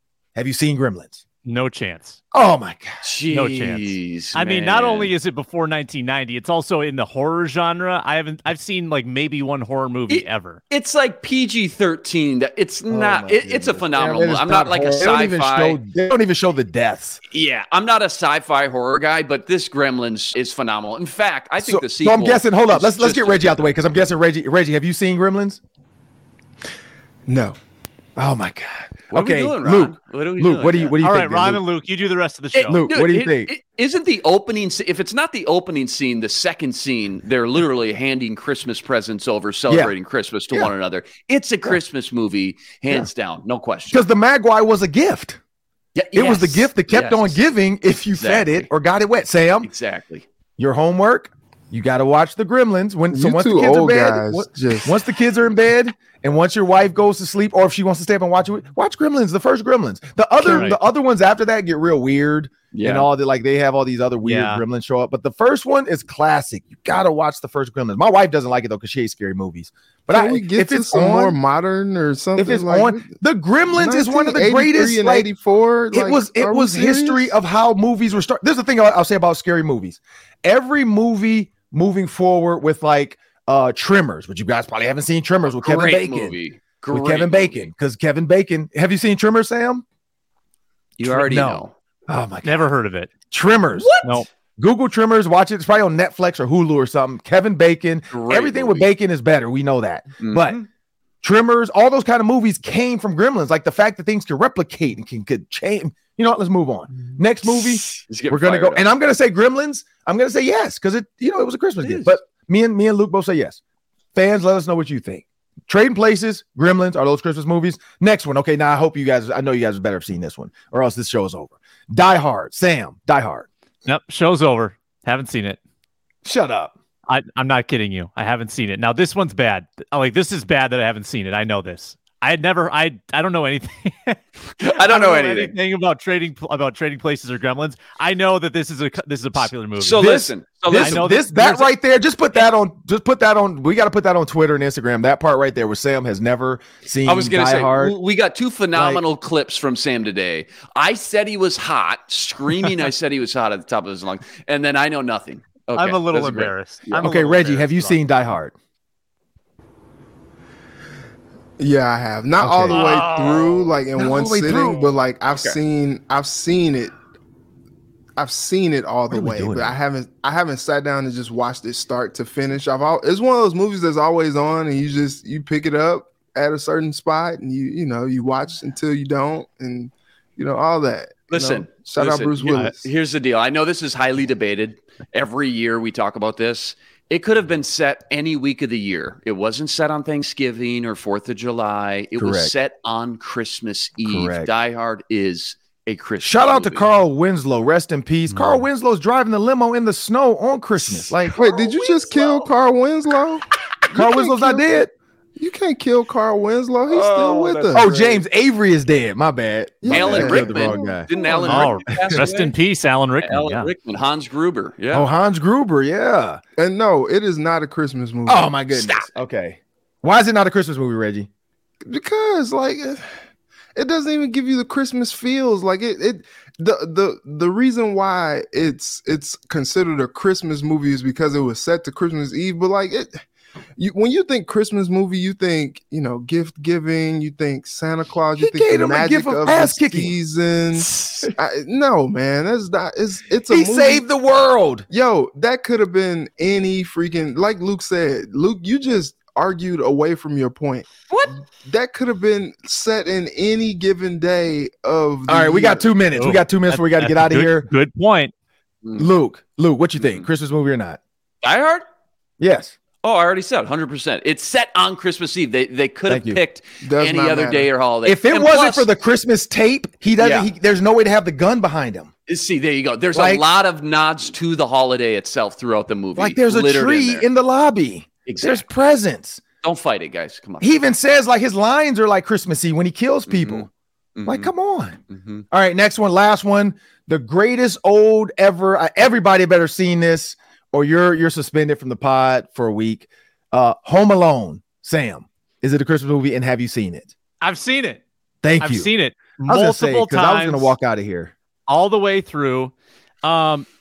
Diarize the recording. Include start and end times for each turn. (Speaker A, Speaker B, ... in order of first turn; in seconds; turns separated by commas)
Speaker A: 0.3-1.2, Speaker B: 1.4-2.2, Speaker A: 2.3-3.0, Speaker C: 3.0-5.1, Speaker B: 3.3-10.6, Speaker C: 10.1-15.8, Speaker A: 12.9-17.2, Speaker C: 17.3-23.7, Speaker A: 21.6-25.6, Speaker D: 27.3-27.6, Speaker A: 28.2-31.6, Speaker C: 29.1-31.0, Speaker B: 31.0-32.8, Speaker C: 32.5-44.1, Speaker A: 32.7-33.5, Speaker A: 43.9-45.4, Speaker C: 46.0-47.4, Speaker A: 46.1-49.7, Speaker C: 48.2-48.7, Speaker C: 49.6-50.2, Speaker A: 50.6-71.4, Speaker D: 53.1-55.0, Speaker B: 60.4-60.8, Speaker C: 62.7-63.1, Speaker B: 64.2-64.6, Speaker D: 70.1-73.2, Speaker A: 72.4-75.3, Speaker D: 73.8-77.3, Speaker A: 75.9-86.3, Speaker C: 85.6-87.7, Speaker A: 86.9-89.8, Speaker C: 91.0-91.7, Speaker A: 91.0-92.6, Speaker B: 92.4-93.1, Speaker A: 93.3-94.0, Speaker C: 93.8-94.2, Speaker A: 94.6-100.6, Speaker C: 98.1-98.9, Speaker C: 100.2-100.7, Speaker A: 101.2-113.6, Speaker C: 107.6-108.8, Speaker C: 111.8-112.2, Speaker A: 114.2-123.5, Speaker B: 123.8-125.6, Speaker A: 126.2-126.7, Speaker B: 127.1-140.1, Speaker C: 134.6-135.5, Speaker C: 139.8-141.1, Speaker A: 139.9-147.9, Speaker B: 140.8-141.7, Speaker C: 147.1-157.1, Speaker B: 155.8-158.0, Speaker A: 157.0-158.5, Speaker D: 161.6-166.9, Speaker A: 162.4-163.1, Speaker C: 162.8-163.5, Speaker A: 164.0-164.9, Speaker C: 165.3-165.6, Speaker D: 168.2-182.9, Speaker A: 169.1-169.7, Speaker C: 181.3-196.9, Speaker A: 192.2-192.5, Speaker A: 194.1-194.5, Speaker A: 196.2-201.5, Speaker C: 200.9-202.4, Speaker D: 201.3-204.7, Speaker A: 203.9-204.9, Speaker D: 205.4-207.9, Speaker C: 206.9-208.2, Speaker A: 207.7-211.1, Speaker D: 209.8-211.7, Speaker C: 209.9-212.5, Speaker B: 211.4-213.7, Speaker C: 213.2-215.1, Speaker A: 214.9-216.4, Speaker D: 216.6-218.5, Speaker A: 218.3-221.3, Speaker C: 218.8-219.0, Speaker D: 221.8-223.1, Speaker D: 223.8-233.2, Speaker D: 233.8-244.1, Speaker A: 238.4-240.1, Speaker A: 243.5-244.9, Speaker D: 244.9-250.9, Speaker D: 251.5-255.9, Speaker A: 255.3-257.7, Speaker B: 256.2-258.3, Speaker C: 258.8-259.1, Speaker A: 259.0-261.0, Speaker C: 260.0-260.3, Speaker C: 261.4-261.8, Speaker A: 262.4-262.8, Speaker C: 263.0-268.9, Speaker A: 266.1-266.4, Speaker D: 266.8-267.7, Speaker A: 268.1-272.1, Speaker C: 270.2-270.5, Speaker C: 272.3-277.2, Speaker A: 273.1-273.4, Speaker A: 276.2-279.4, Speaker C: 278.3-278.6, Speaker C: 279.6-280.8, Speaker A: 280.6-283.7, Speaker C: 283.3-283.6, Speaker C: 284.2-284.5, Speaker A: 284.3-285.0, Speaker C: 285.1-285.4, Speaker A: 285.5-297.1, Speaker B: 297.4-298.0, Speaker A: 298.4-298.9, Speaker B: 298.6-300.7, Speaker A: 299.5-301.3, Speaker B: 301.7-303.7